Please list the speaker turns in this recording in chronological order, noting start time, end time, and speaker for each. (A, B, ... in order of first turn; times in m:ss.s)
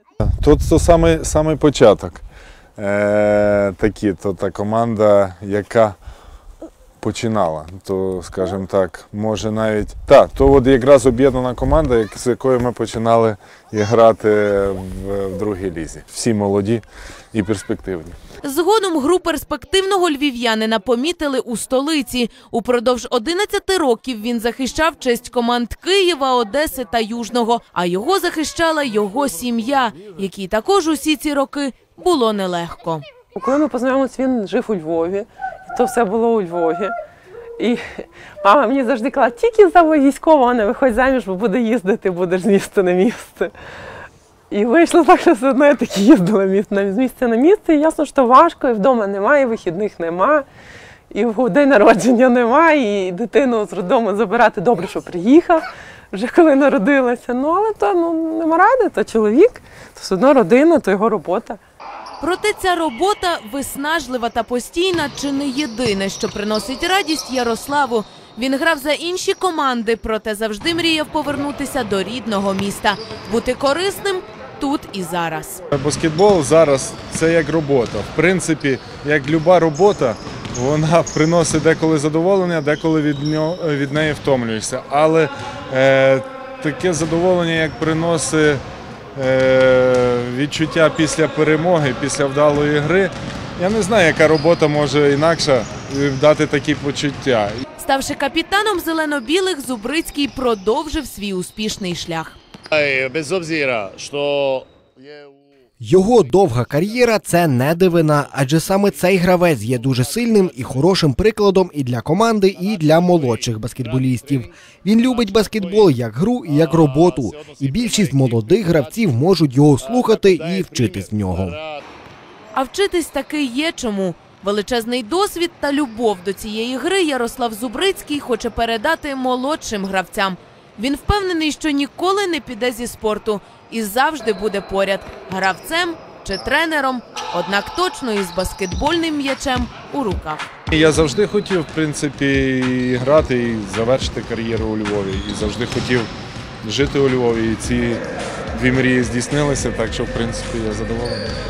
0:00.4-0:02.2 A
0:02.8-0:06.0 A
0:07.0-0:18.2 A
0:18.4-0:33.0 B
0:33.4-0:37.0 C
0:37.6-0:43.5 C
0:44.5-0:50.5 C
0:51.1-1:01.6 C
1:02.2-1:15.6 B
1:15.7-1:28.6 A
1:29.2-1:37.6 A
1:37.8-1:42.4 B
1:42.7-1:45.4 D
1:45.8-2:01.6 E
1:49.6-1:50.9 D
1:52.6-1:55.9 D
1:56.5-1:59.1 D
1:59.8-2:01.8 D
2:02.5-2:20.5 B
2:20.7-2:26.1 A
2:26.6-2:28.0 A
2:28.5-2:31.4 A